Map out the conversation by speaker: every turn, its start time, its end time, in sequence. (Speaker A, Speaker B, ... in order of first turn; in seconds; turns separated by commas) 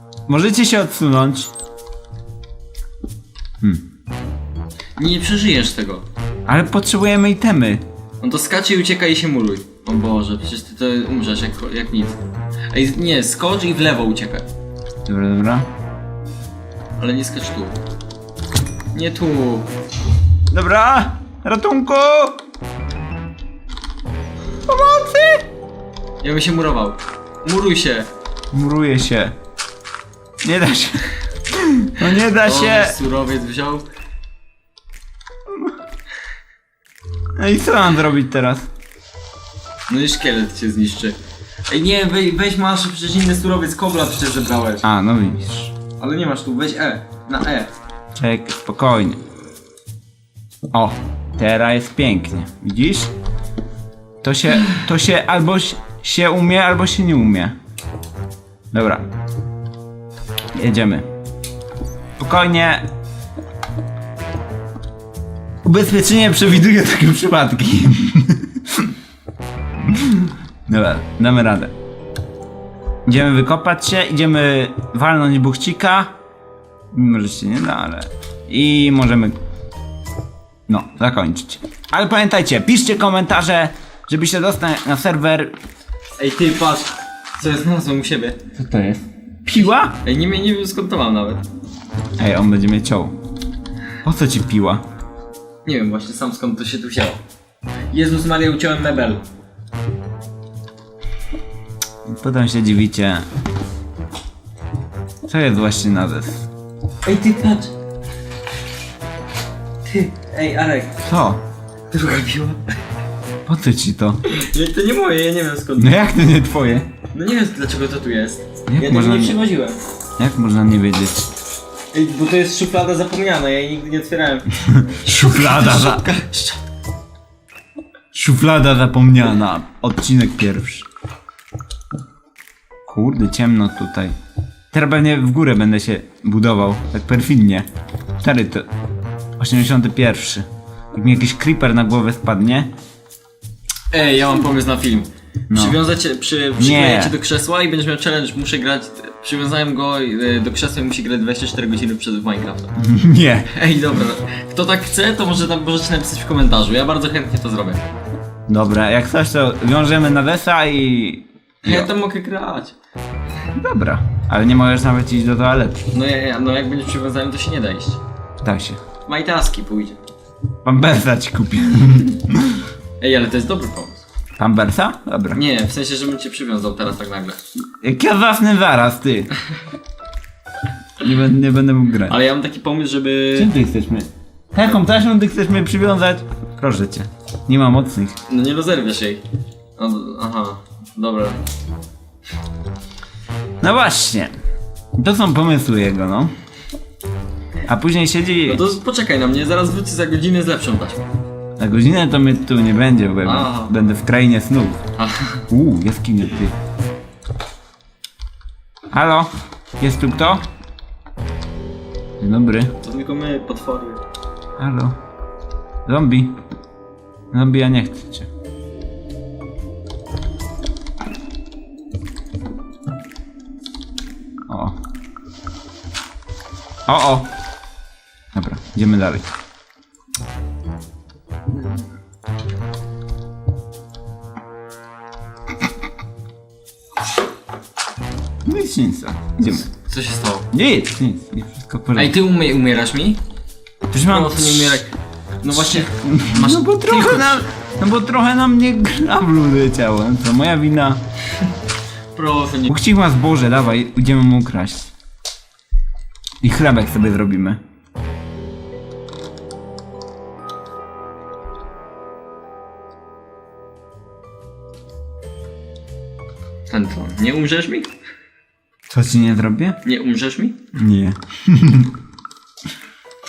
Speaker A: 0.3-1.5, Speaker B: 5.0-6.0, Speaker A: 6.5-7.8, Speaker B: 8.2-12.2, Speaker B: 12.7-14.5, Speaker A: 15.1-15.7, Speaker B: 17.0-17.8, Speaker B: 18.9-19.7, Speaker A: 20.5-22.4, Speaker A: 24.7-25.4, Speaker B: 26.2-28.1, Speaker A: 28.5-29.3, Speaker A: 30.4-33.0, Speaker B: 32.4-33.8, Speaker A: 35.5-35.7, Speaker A: 37.4-38.7, Speaker B: 39.9-41.2, Speaker B: 41.7-44.9, Speaker A: 44.8-45.7, Speaker B: 46.0-47.7, Speaker A: 48.1-49.2, Speaker A: 50.7-53.1, Speaker A: 54.2-57.5, Speaker A: 58.7-59.0, Speaker A: 60.5-61.0, Speaker A: 62.2-62.8, Speaker A: 65.6-68.9, Speaker A: 69.9-71.7, Speaker A: 73.0-76.1, Speaker A: 76.9-79.3, Speaker A: 80.7-85.5, Speaker B: 86.2-88.4, Speaker A: 88.5-89.9, Speaker B: 89.5-91.4, Speaker A: 92.2-93.1, Speaker A: 94.0-94.8, Speaker B: 95.6-97.2, Speaker B: 97.9-99.2, Speaker A: 102.1-103.3, Speaker A: 105.3-106.5, Speaker B: 107.0-107.7, Speaker B: 109.8-111.0, Speaker A: 111.0-111.4, Speaker B: 111.9-112.8, Speaker A: 113.5-114.2, Speaker B: 114.3-116.1, Speaker A: 115.8-116.9, Speaker B: 117.1-119.8, Speaker A: 118.7-119.4, Speaker A: 120.2-121.3, Speaker B: 121.9-124.5, Speaker A: 124.6-126.1, Speaker B: 125.0-126.6, Speaker A: 128.1-130.8, Speaker A: 132.8-134.1, Speaker A: 134.7-137.7, Speaker A: 138.2-138.7, Speaker A: 139.4-142.7, Speaker B: 143.9-152.7, Speaker A: 145.5-145.8, Speaker A: 146.6-147.2, Speaker A: 152.8-153.5, Speaker B: 153.5-157.8, Speaker A: 158.5-161.9, Speaker B: 161.6-162.7, Speaker A: 163.5-165.9, Speaker B: 165.9-168.0, Speaker A: 168.4-168.8, Speaker B: 169.1-170.0, Speaker A: 170.6-172.6, Speaker B: 173.0-174.0, Speaker A: 174.4-175.4, Speaker B: 175.3-177.4, Speaker A: 177.8-179.3, Speaker A: 181.0-182.1, Speaker B: 182.1-183.5, Speaker A: 183.3-188.2, Speaker B: 188.3-189.2, Speaker B: 189.8-191.4, Speaker A: 193.6-194.3, Speaker A: 195.0-196.3, Speaker A: 197.7-198.7, Speaker B: 198.4-201.0, Speaker A: 201.6-204.8, Speaker B: 203.2-203.7, Speaker B: 205.0-205.4, Speaker A: 205.5-206.5, Speaker A: 208.9-210.4, Speaker A: 212.2-212.7, Speaker B: 212.8-214.0, Speaker A: 214.6-214.9, Speaker A: 215.8-216.3, Speaker A: 217.3-218.3, Speaker A: 224.5-224.8, Speaker A: 226.9-227.3, Speaker A: 228.3-229.2, Speaker A: 238.4-239.7, Speaker B: 239.4-240.4, Speaker A: 240.5-242.2, Speaker B: 241.9-243.2, Speaker A: 243.9-244.8, Speaker B: 243.9-244.9, Speaker B: 245.4-247.4, Speaker A: 245.5-251.0, Speaker B: 252.1-252.8, Speaker A: 252.7-254.9, Speaker A: 256.4-257.6, Speaker B: 266.7-267.9, Speaker A: 268.9-269.8, Speaker B: 269.8-270.6, Speaker A: 270.7-271.9